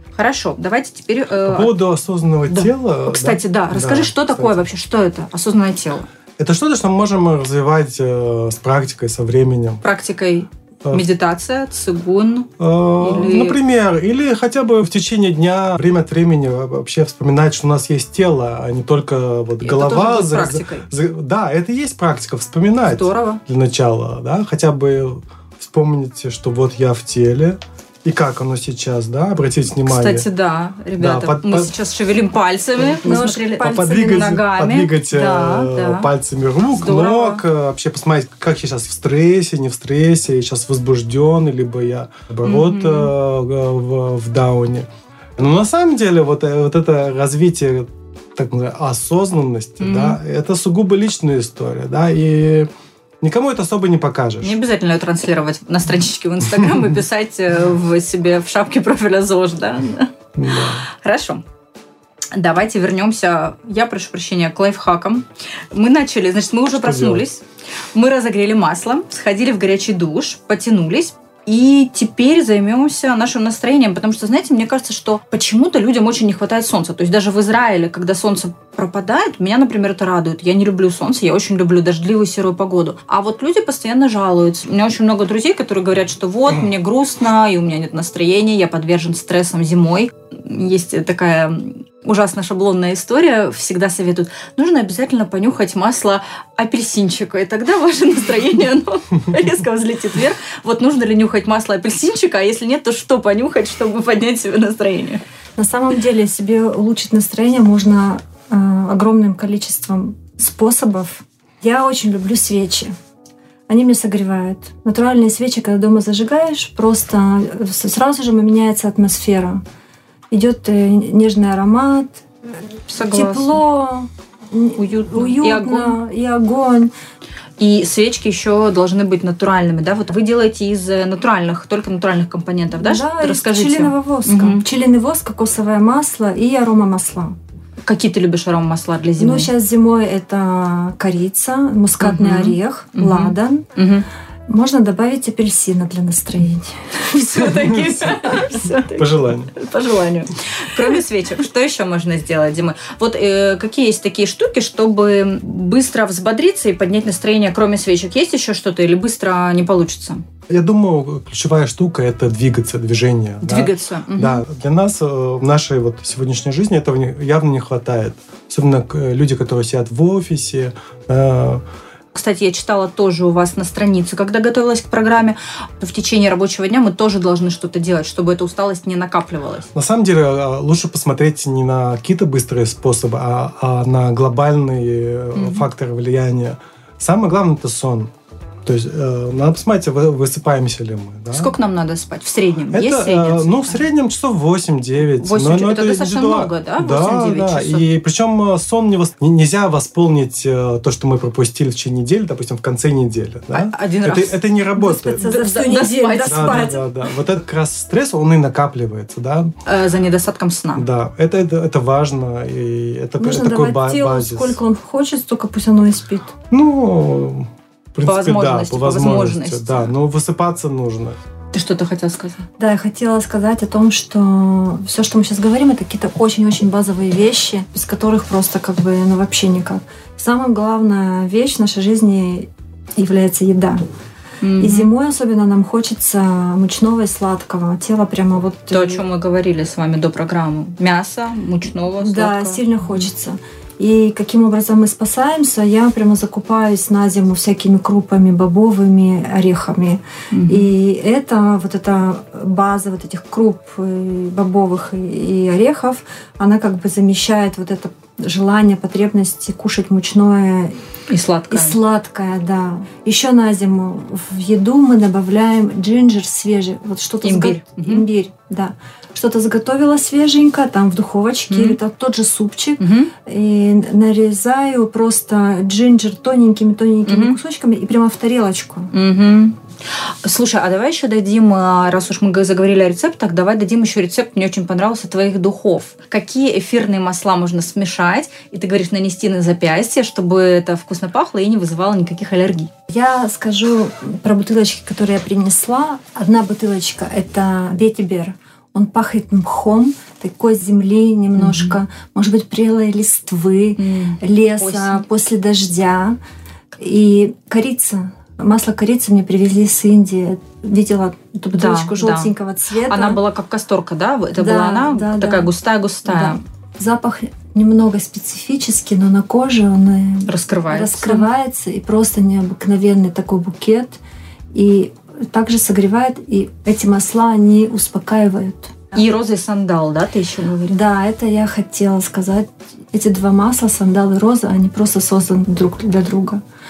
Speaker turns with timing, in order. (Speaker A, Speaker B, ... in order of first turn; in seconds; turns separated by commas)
Speaker A: 0.1-1.7, Speaker B: 1.4-4.7, Speaker A: 2.5-6.1, Speaker B: 6.4-9.8, Speaker A: 9.8-13.6, Speaker B: 12.6-30.3, Speaker A: 19.6-20.9, Speaker A: 22.9-23.4, Speaker A: 29.8-36.1, Speaker B: 31.0-31.7, Speaker B: 32.8-44.9, Speaker C: 33.0-34.0, Speaker A: 36.7-37.5, Speaker A: 42.4-43.1, Speaker B: 45.4-52.7, Speaker A: 49.8-50.2, Speaker B: 53.2-54.6, Speaker A: 54.4-60.1, Speaker B: 60.4-60.8, Speaker A: 61.0-61.4, Speaker A: 62.4-105.2, Speaker B: 66.7-67.2, Speaker C: 105.6-112.9, Speaker C: 113.7-119.6, Speaker C: 120.3-126.9, Speaker A: 122.9-123.6, Speaker A: 124.8-126.0, Speaker A: 127.6-134.6, Speaker C: 132.7-137.3, Speaker A: 137.8-139.5, Speaker C: 139.2-143.7, Speaker A: 142.0-144.1, Speaker C: 144.5-147.0, Speaker A: 146.9-160.2, Speaker B: 149.0-149.5, Speaker B: 160.5-171.6, Speaker A: 163.4-164.4, Speaker A: 172.1-179.7, Speaker B: 179.7-188.1, Speaker A: 185.3-185.7, Speaker B: 188.7-191.6, Speaker A: 191.3-193.8, Speaker B: 192.7-205.3, Speaker A: 195.1-197.9, Speaker A: 203.5-204.4, Speaker C: 204.8-206.8, Speaker A: 205.2-206.8, Speaker B: 206.2-209.5, Speaker A: 209.7-210.9, Speaker B: 210.8-214.6, Speaker C: 213.2-216.3, Speaker B: 216.5-221.2, Speaker A: 218.1-219.9, Speaker A: 221.5-222.5, Speaker C: 222.6-233.8, Speaker A: 234.4-234.9, Speaker C: 234.6-239.0, Speaker A: 238.7-243.1, Speaker C: 241.9-260.8, Speaker A: 250.3-250.7, Speaker A: 261.1-261.8, Speaker C: 261.5-278.9, Speaker A: 267.2-268.1, Speaker A: 271.5-271.8, Speaker A: 272.8-273.1, Speaker A: 277.1-277.4, Speaker A: 278.9-279.6, Speaker A: 280.2-292.7, Speaker C: 292.9-306.2, Speaker A: 301.4-301.8, Speaker A: 303.8-305.1, Speaker C: 306.8-313.2, Speaker A: 311.5-312.3, Speaker A: 312.9-316.4, Speaker C: 314.4-315.5, Speaker C: 316.1-324.0, Speaker A: 320.3-321.3, Speaker C: 324.5-329.0, Speaker A: 328.9-330.8, Speaker C: 330.7-336.4